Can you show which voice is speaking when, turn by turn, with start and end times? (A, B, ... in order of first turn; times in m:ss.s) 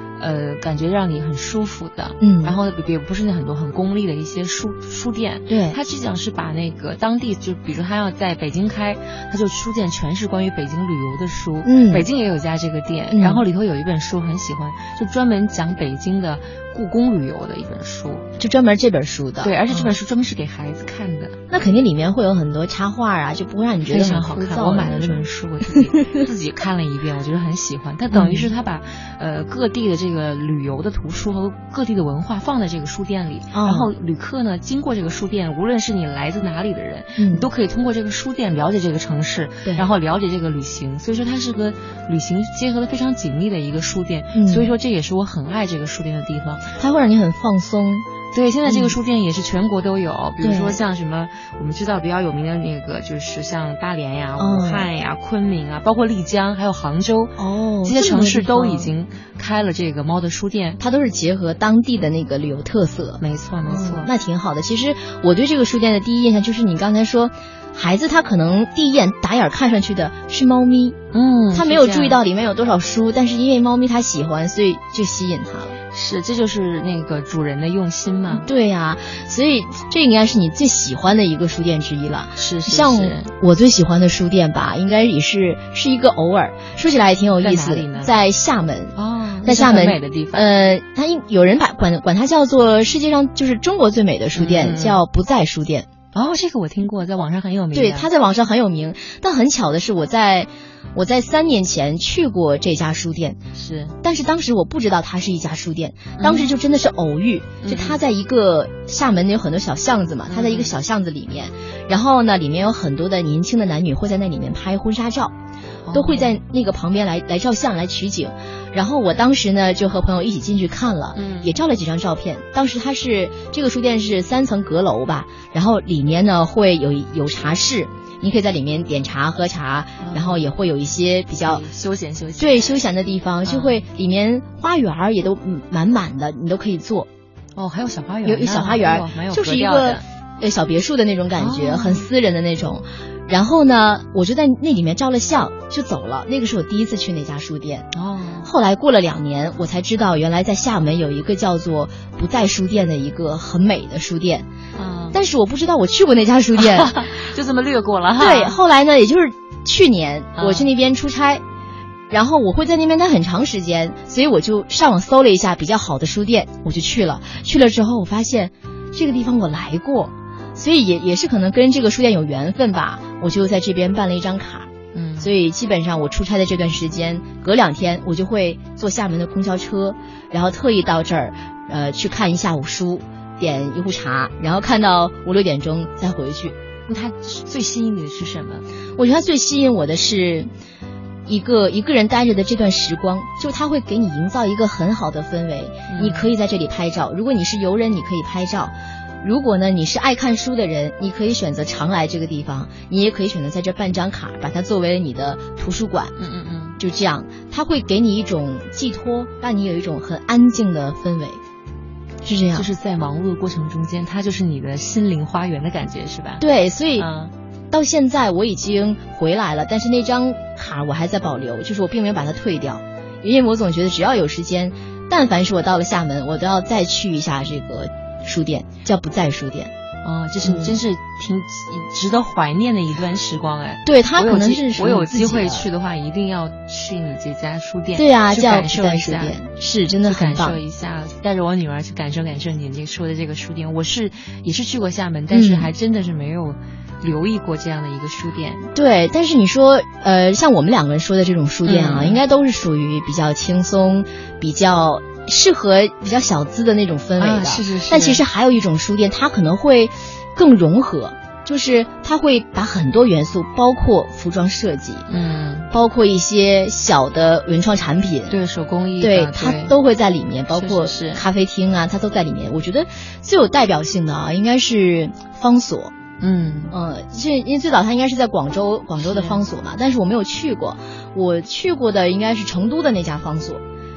0:00.2-0:18.2 A
0:02.2-0:02.6 B
0:05.5-0:05.8 B
0:11.6-0:12.1 B
0:13.1-0:13.4 B
0:18.4-0:19.9 B
0:19.4-0:21.4 A
0:21.5-0:26.2 B
0:23.9-0:46.7 A
0:28.1-0:28.5 B
0:33.5-0:33.9 B
0:37.2-0:37.5 B
0:44.3-0:44.7 B
0:46.8-0:48.0 B
0:48.3-1:00.8 A
0:48.6-0:49.0 B
0:50.4-0:50.8 B
0:54.4-0:54.9 B
0:57.4-0:58.9 B
1:00.8-1:11.0 B
1:03.2-1:04.1 A
1:11.1-1:12.2 A
1:11.5-1:15.8 B
1:15.9-1:18.5 A
1:18.3-1:35.9 B
1:22.4-1:23.3 A
1:27.4-1:28.1 A
1:28.9-1:30.5 A
1:34.3-1:35.0 A
1:36.1-1:38.1 A
1:37.7-1:43.4 B
1:43.5-1:43.9 A
1:44.0-1:55.3 B
1:46.2-1:46.5 A
1:47.6-1:48.0 A
1:50.3-1:50.7 A
1:55.8-1:56.3 A
1:55.9-2:11.6 B
2:01.1-2:01.5 A
2:10.0-2:10.4 A
2:11.4-2:12.7 A
2:12.4-2:17.1 B
2:13.4-2:13.8 A
2:17.6-2:20.0 A
2:18.2-2:27.9 B
2:21.4-2:22.0 A
2:27.9-2:28.5 A
2:28.4-2:34.4 B
2:34.7-2:35.2 A
2:35.1-2:37.2 B
2:36.6-2:38.6 A
2:38.2-2:41.4 B
2:40.4-2:40.7 A
2:42.1-3:06.5 B
2:54.9-2:55.3 A
3:06.9-3:08.6 A
3:09.0-3:10.5 B
3:11.2-3:26.1 B
3:15.9-3:16.3 A
3:26.2-3:26.8 A
3:26.8-3:31.4 B
3:32.2-3:32.7 B
3:32.5-3:36.4 A
3:36.4-3:37.0 B
3:37.0-3:37.3 A
3:37.7-3:49.7 B
3:50.0-3:59.4 A
3:50.4-3:50.7 B
3:53.8-3:55.7 B
3:57.9-4:00.6 B
4:00.0-4:08.6 A
4:05.3-4:05.7 B
4:08.7-4:25.1 B
4:11.6-4:12.2 A
4:17.2-4:18.2 A
4:25.1-4:25.7 A
4:25.7-4:28.3 B
4:28.3-4:29.7 A
4:29.0-4:35.9 B
4:30.5-4:31.2 A
4:36.2-4:36.7 A
4:36.7-4:43.6 B
4:39.0-4:39.4 A